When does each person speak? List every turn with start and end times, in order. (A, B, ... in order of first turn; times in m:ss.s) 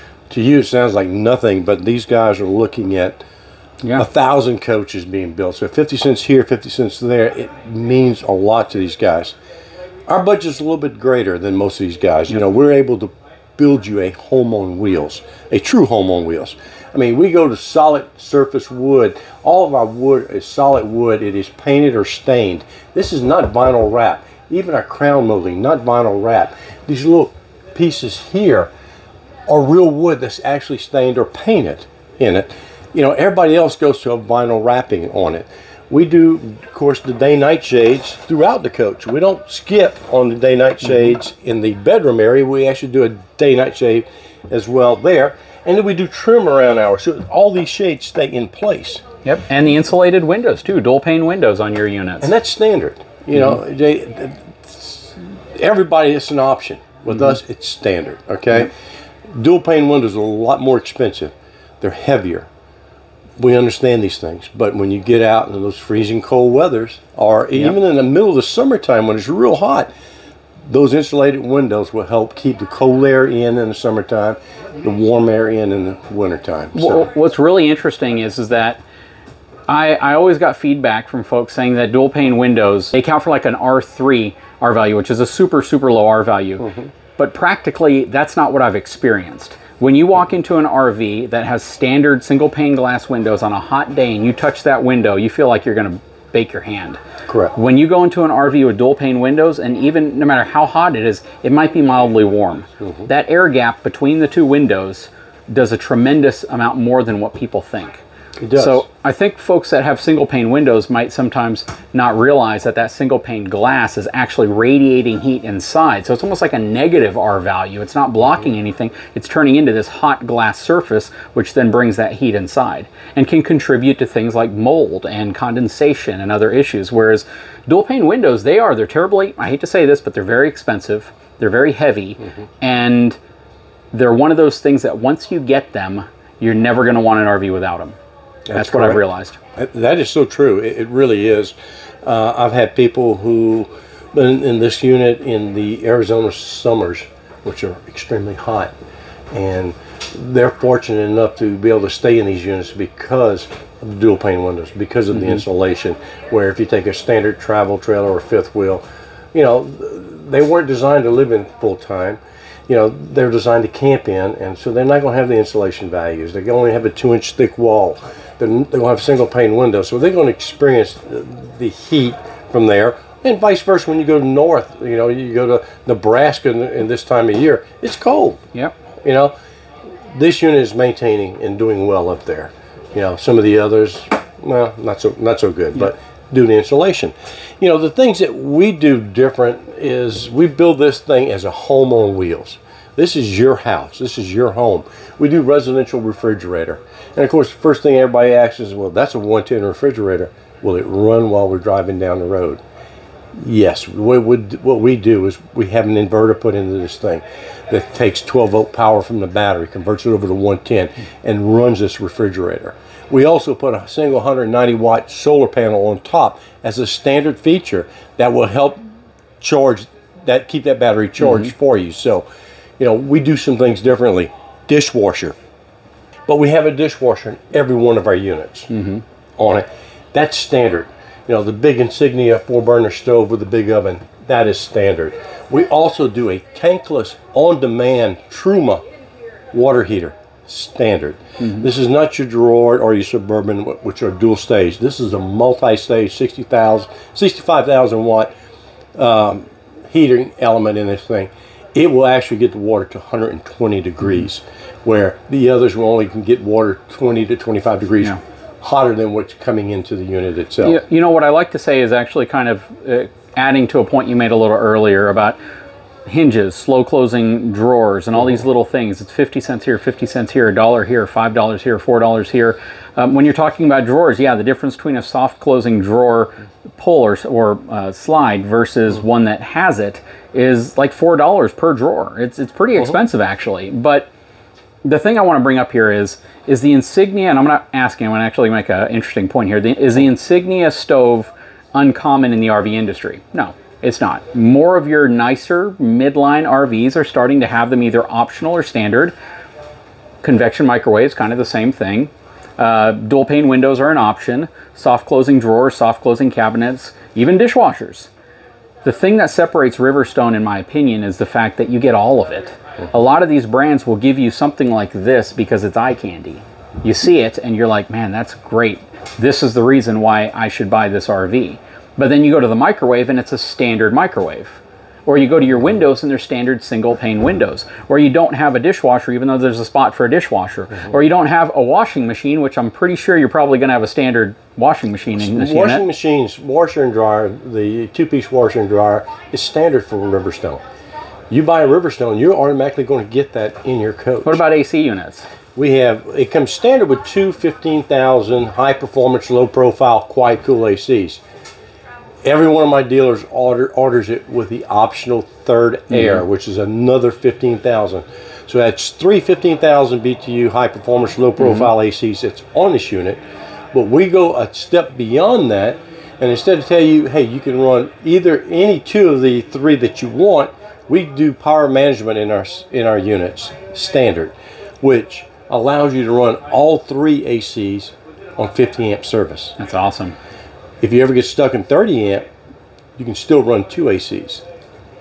0:00.3-0:03.2 A
0:04.0-0:09.4 A
0:10.1-0:28.7 A
0:29.5-0:49.0 A
0:49.2-0:52.3 B
0:52.2-0:58.7 A
0:59.3-1:02.5 A
1:03.4-1:09.9 A
1:10.7-1:17.1 A
1:16.7-1:18.8 B
1:19.7-1:37.0 B
1:37.3-1:37.5 A
1:37.5-2:13.2 B
1:42.8-1:43.1 A
1:48.4-1:48.8 A
2:13.9-2:18.0 B
2:18.5-2:19.0 A
2:18.5-2:19.4 B
2:19.5-2:28.7 A
2:29.3-2:58.4 A
2:59.0-2:59.3 A
3:00.1-3:22.6 A
3:23.4-3:38.8 A
3:39.4-3:42.2 A
3:41.2-3:41.5 B
3:42.8-3:45.4 A
3:46.3-3:48.8 A
3:48.7-3:49.0 B
3:49.4-3:58.8 A
3:59.5-4:08.3 A
4:09.0-4:20.8 A
4:20.6-4:25.4 B
4:26.0-4:44.1 B
4:44.8-4:59.1 B
5:00.2-5:08.1 B
5:08.8-5:35.8 B
5:35.2-5:40.6 A
5:41.3-5:44.4 A
5:44.2-5:45.3 B
5:45.5-5:51.2 A
5:52.2-6:03.2 A
5:55.9-5:56.2 B
6:01.4-6:01.7 B
6:03.7-6:19.5 A
6:19.6-6:20.2 B
6:20.8-6:22.3 A
6:23.0-6:24.4 A